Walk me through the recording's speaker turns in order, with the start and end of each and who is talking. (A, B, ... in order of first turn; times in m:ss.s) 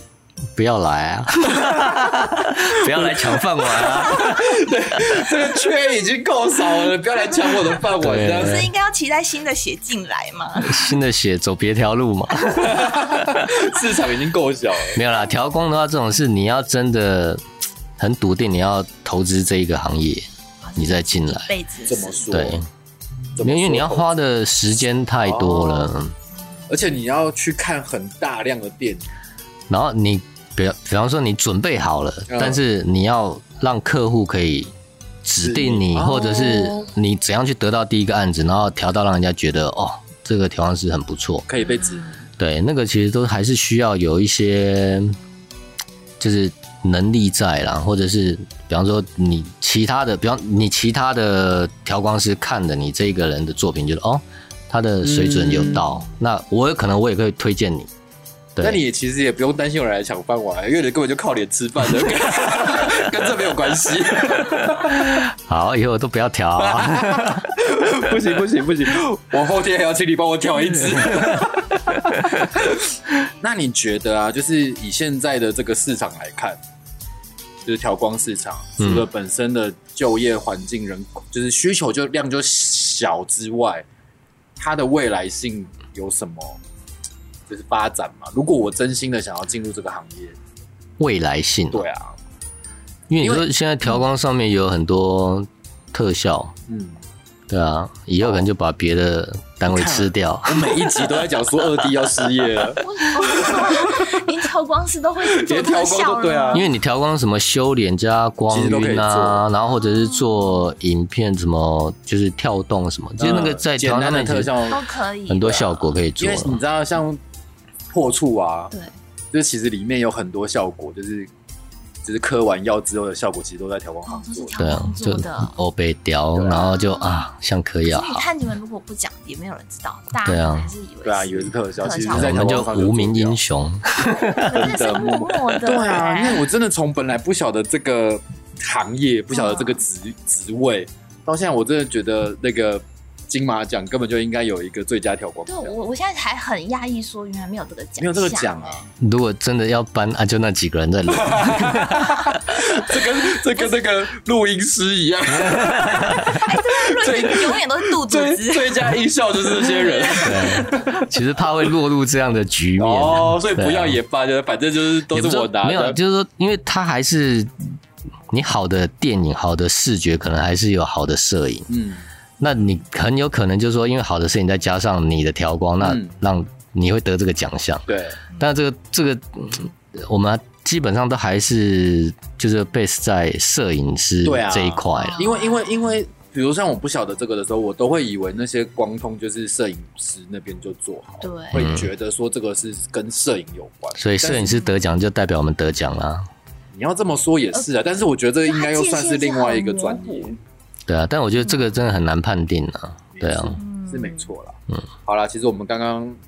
0:00.5-0:04.5 A
0:02.5-0:08.7 B
0:07.9-0:08.7 A
0:08.4-0:11.0 C
0:10.6-0:13.5 A
0:12.4-0:15.0 B
0:14.9-0:17.4 A
0:18.0-0:21.5 A
0:20.6-0:22.2 C
0:21.8-0:22.6 B
0:22.3-0:22.7 A
0:23.3-0:24.1 B
0:23.4-0:26.1 A
0:25.2-0:25.9 B
0:26.7-0:29.0 B
0:29.7-0:34.7 A
0:32.3-0:32.6 B
0:35.2-0:41.4 A
0:35.4-0:36.9 B
0:41.5-0:42.2 B
0:42.4-0:45.2 A
0:46.2-0:57.9 A
0:55.0-0:55.8 B
0:58.5-0:58.8 A
0:58.6-1:05.2 B
1:04.8-1:07.5 A
1:06.6-1:12.8 B
1:10.7-1:11.6 A
1:12.1-1:12.5 A
1:13.4-1:16.6 B
1:17.6-1:23.8 B
1:18.8-1:19.0 A
1:24.6-1:26.6 B
1:27.5-1:30.4 B
1:31.0-1:31.8 A
1:31.7-1:32.2 B
1:33.1-1:36.5 A
1:33.2-1:33.5 B
1:36.7-1:37.0 B
1:37.5-1:41.1 A
1:39.6-1:44.2 B
1:42.8-1:46.7 C
1:45.2-1:46.6 B
1:46.5-1:54.7 A
1:48.5-1:49.4 B
1:49.8-1:50.7 C
1:53.2-1:54.8 B
1:54.7-1:55.8 C
1:55.3-1:56.6 A
1:56.2-1:57.2 B
1:57.9-1:58.7 B
1:59.3-2:01.3 B
2:02.0-2:04.6 B
2:04.0-2:05.6 C
2:04.6-2:08.2 A
2:06.3-2:06.6 B
2:06.5-2:07.3 C
2:07.8-2:12.7 C
2:10.2-2:10.7 A
2:11.0-2:13.4 B
2:12.1-2:15.6 A
2:14.2-2:16.4 C
2:14.5-2:25.7 B
2:19.3-2:19.8 C
2:25.5-2:28.9 C
2:28.0-2:28.8 B
2:29.0-2:32.6 A
2:31.1-2:41.1 B
2:35.3-2:36.4 A
2:36.3-2:38.9 C
2:39.7-2:40.7 C
2:40.2-2:44.0 A
2:42.8-2:46.0 B
2:45.1-2:47.7 A
2:48.3-2:51.7 A
2:51.7-2:52.0 B
2:52.4-3:05.3 A
2:55.8-2:56.1 B
2:57.9-2:58.2 B
3:04.2-3:14.6 B
3:05.0-3:06.0 C
3:11.2-3:11.8 C
3:11.5-3:11.9 A
3:14.0-3:16.3 A
3:14.4-3:14.8 C
3:16.7-3:20.4 B
3:18.4-3:20.4 C
3:20.9-3:23.6 A
3:23.1-3:26.2 B
3:23.6-3:24.3 C